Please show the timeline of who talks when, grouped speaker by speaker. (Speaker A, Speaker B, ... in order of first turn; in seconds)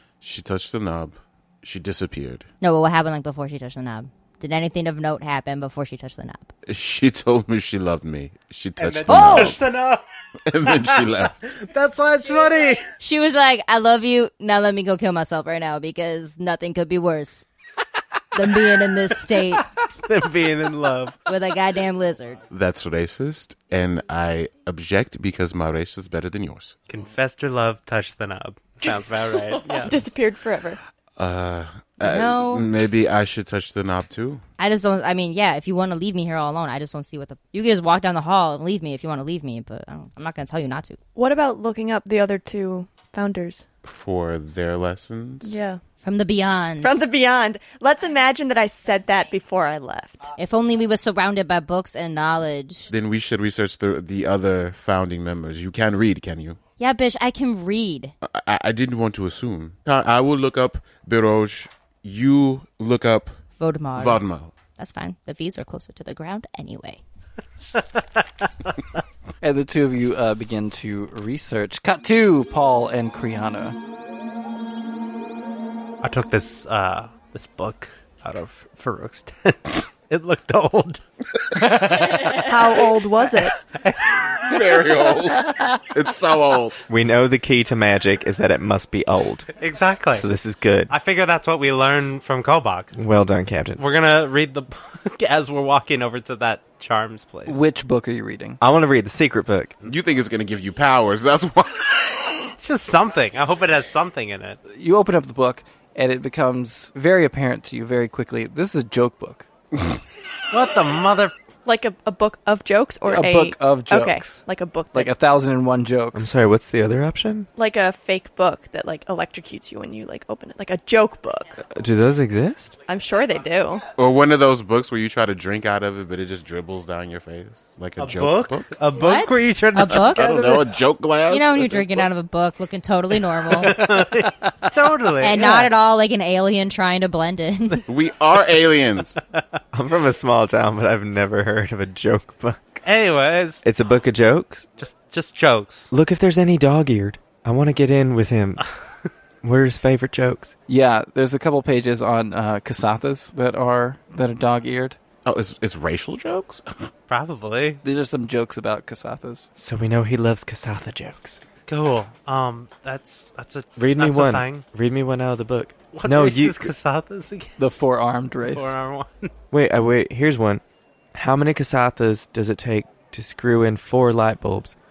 Speaker A: 0.2-2.5, 6.7-9.6, 10.4-11.5, 22.5-26.8, 31.2-34.4, 43.9-45.6, 52.9-56.6, 58.2-63.4, 64.0-64.6, 84.4-86.8, 99.8-102.5, 124.0-128.8, 129.9-132.1, 137.9-139.2, 155.2-156.9
Speaker B: 2.6-6.5, 9.1-9.6, 13.0-17.5, 18.3-19.7, 21.3-22.4, 32.0-32.7, 34.6-41.0, 46.0-47.0, 50.4-52.9, 56.8-58.1, 63.6-64.2, 64.8-67.0, 128.9-130.3, 131.2-133.8, 135.2-137.9
Speaker C: 8.8-10.0, 10.6-12.9, 20.1-21.2, 26.9-30.0, 67.8-68.0, 76.0-82.8, 83.7-85.2, 89.6-90.3, 90.9-92.9, 93.8-97.6, 102.6-104.6, 110.5-111.3, 128.0-130.7, 133.5-135.7, 142.8-143.6, 144.8-145.9, 157.1-157.8, 161.7-164.6, 165.9-167.6, 168.5-169.3
Speaker D: 29.8-30.8, 41.2-43.6, 45.4-45.8, 46.8-50.3, 82.2-83.6, 111.7-115.1, 117.6-121.6, 122.9-123.9
Speaker E: 69.4-73.8, 97.5-98.6, 104.7-109.5, 113.0-116.3, 133.9-134.5, 150.7-155.0, 157.8-159.5, 167.6-168.8
Speaker F: 86.9-89.5, 90.1-90.9, 92.9-93.8, 98.6-99.8, 116.1-117.5, 121.7-122.8, 139.7-142.8, 143.6-144.7, 145.9-148.7, 149.4-150.6, 159.6-161.4, 163.8-166.7, 169.5-170.6, 171.1-174.8